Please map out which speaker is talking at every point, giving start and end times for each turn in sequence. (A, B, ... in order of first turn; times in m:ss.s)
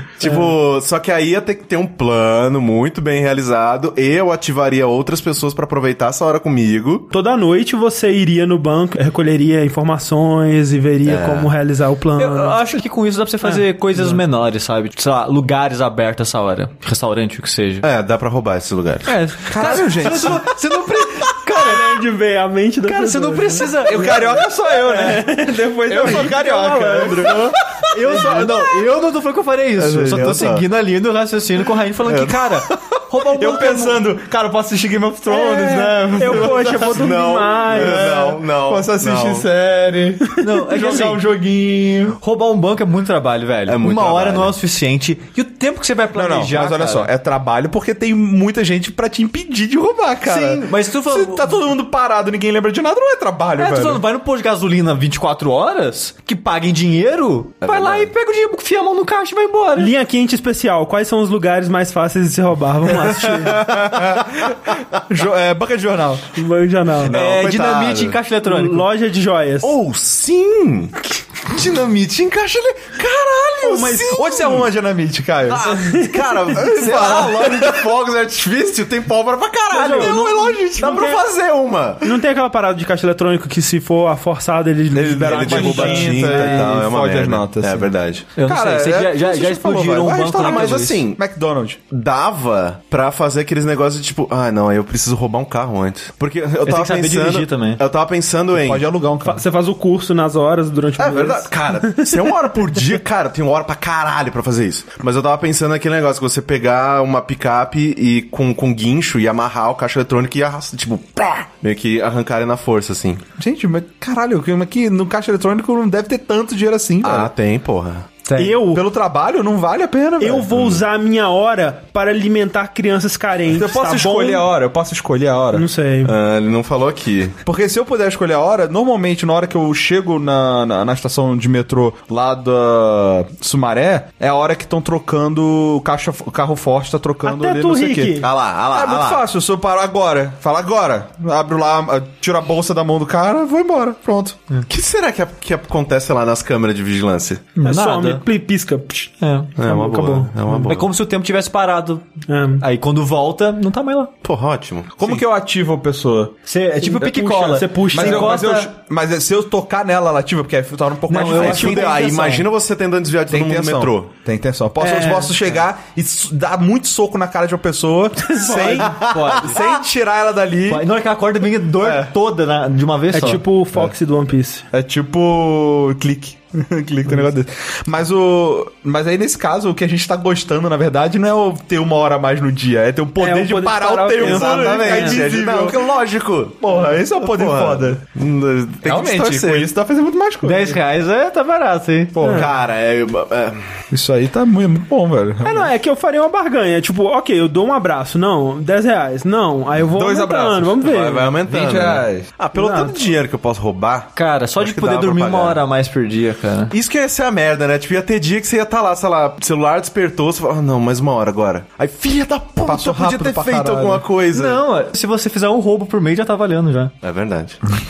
0:00.2-0:07.1 A
0:00.2-0:00.5 B
0:07.1-0:12.6 B
0:11.0-0:11.5 A
0:12.2-0:17.8 C
0:13.4-0:14.2 B
0:17.8-0:19.1 A
0:19.0-0:22.0 C
0:19.4-0:20.5 D
0:21.5-0:27.6 B
0:22.8-0:24.4 C
0:23.8-0:28.6 D
0:27.9-0:34.0 C
0:29.8-0:30.6 A
0:32.0-0:32.9 A
0:33.3-0:37.2 D
0:35.3-0:38.1 B
0:36.5-0:39.5 A
0:37.7-0:42.2 D
0:40.4-0:41.3 C
0:42.2-0:47.1 C
0:43.7-0:44.6 A
0:46.1-0:54.0 D
0:50.2-0:51.6 C
0:53.6-0:59.9 C
0:57.6-0:58.1 A
0:59.8-1:03.7 B
1:02.8-1:06.3 D
1:06.4-1:07.2 B
1:07.0-1:08.2 A
1:07.1-1:08.9 C
1:08.4-1:09.7 B
1:09.6-1:10.9 A
1:11.4-1:14.7 A
1:13.6-1:14.4 B
1:14.0-1:15.7 D
1:15.5-1:22.1 A
1:15.6-1:16.6 B
1:16.5-1:17.8 D
1:19.7-1:21.2 B
1:22.0-1:26.7 B
1:24.9-1:27.9 D
1:25.2-1:28.3 A
1:28.4-1:31.0 C
1:28.4-1:31.8 D
1:30.4-1:31.2 A
1:31.9-1:38.8 A
1:36.6-1:37.8 C
1:38.5-1:39.4 D
1:39.2-1:42.3 B
1:41.0-1:53.2 A
1:53.4-1:57.3 D
1:57.0-1:58.1 A
1:58.2-2:00.6 D
1:58.3-1:58.8 B
2:00.2-2:04.5 B
2:00.5-2:00.8 A
2:03.5-2:05.7 D
2:05.5-2:06.1 B
2:06.0-2:07.4 A
2:07.4-2:24.4 D
2:17.2-2:18.3 B
2:18.2-2:19.2 A
2:24.7-2:27.4 A
2:27.6-2:28.2 C
2:27.6-2:29.1 B
2:29.2-2:29.6 C
2:29.6-2:30.9 A
2:29.7-2:30.6 B
2:30.6-2:32.0 C
2:32.3-2:32.6 B
2:32.6-2:34.1 C
2:34.2-2:35.2 A
2:35.0-2:36.4 D
2:36.5-2:38.7 C
2:36.8-2:38.6 B
2:37.0-2:42.1 D
2:41.1-2:42.4 C
2:41.2-2:44.1 A
2:43.3-2:50.8 D
2:44.8-2:45.4 B
2:48.2-2:49.0 B
2:48.8-2:49.6 C
2:49.0-2:49.2 A
2:50.7-2:53.4 C
2:51.8-2:52.1 D
2:53.1-2:54.6 B
2:54.7-3:05.9 D
3:03.2-3:05.2 B
3:04.2-3:09.7 A
3:06.6-3:08.0 D
3:08.8-3:10.8 D
3:10.4-3:12.2 C
3:12.1-3:12.5 D
3:12.2-3:12.5 B
3:12.2-3:13.8 A
3:13.9-3:15.7 D
3:15.4-3:21.4 B
3:19.9-3:20.8 D
3:20.8-3:25.6 A
3:21.5-3:22.3 D
3:22.5-3:23.0 B
3:24.2-3:26.7 C
3:26.7-3:34.6 A
3:32.6-3:34.0 D
3:34.3-3:36.9 C
3:37.0-3:37.6 A